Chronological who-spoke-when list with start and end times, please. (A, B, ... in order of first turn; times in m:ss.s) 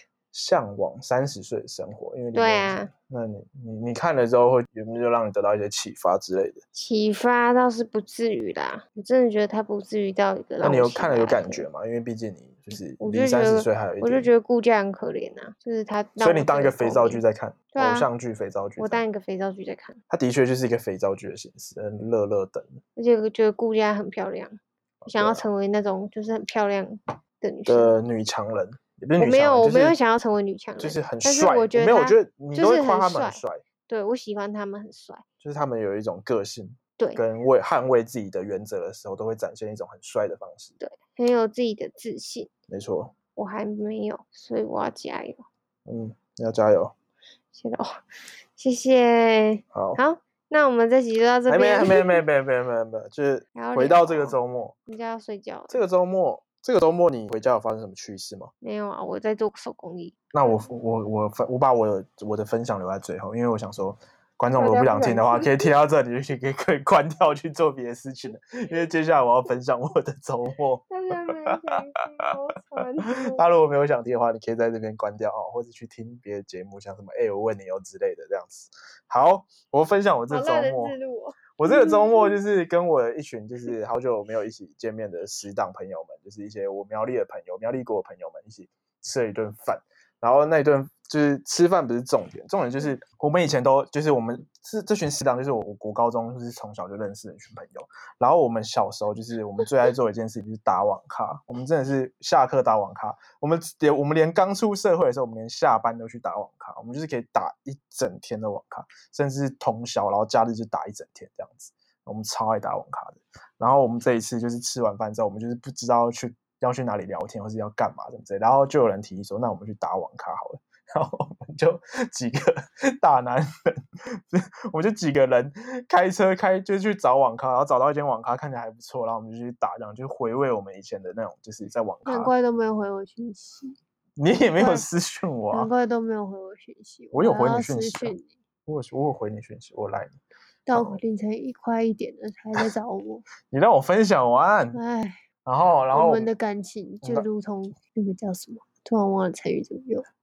0:00.3-0:06.6 A
0:02.3-0:02.9 B
0:06.7-0:11.7 B
0:10.6-0:14.3 A
0:13.0-0:17.2 B
0:16.2-0:19.0 A
0:17.7-0:18.1 B
0:18.8-0:20.0 B
0:20.1-0:22.8 A
0:23.0-0:24.6 B
0:25.0-0:25.5 A
0:25.1-0:28.0 B
0:27.7-0:30.0 A
0:29.2-0:35.3 B
0:30.8-0:33.6 A
0:35.4-0:40.8 A
0:40.8-0:42.5 B
0:42.7-0:43.2 A
0:43.4-0:45.4 B
0:45.9-0:46.9 A
0:47.5-0:47.9 B
0:48.6-0:52.2 B
0:49.7-0:50.0 A
0:51.5-0:54.8 A
0:53.6-0:54.4 B
0:54.9-0:55.8 B
0:55.7-0:58.5 A
0:58.6-1:00.6 B
1:00.3-1:11.8 A
1:04.6-1:05.7 B
1:10.9-1:13.4 B
1:13.1-1:21.0 A
1:20.3-1:22.4 B
1:21.6-2:03.5 A
2:04.3-2:12.3 A
2:12.1-2:13.8 B
2:14.2-2:15.7 A
2:14.6-2:14.9 B
2:15.5-2:18.3 B
2:17.1-2:20.2 A
2:20.7-2:23.2 B
2:20.7-2:21.0 A
2:23.4-2:24.8 A
2:24.7-2:25.2 B
2:25.4-2:26.3 A
2:25.9-2:30.0 B
2:27.0-2:27.3 A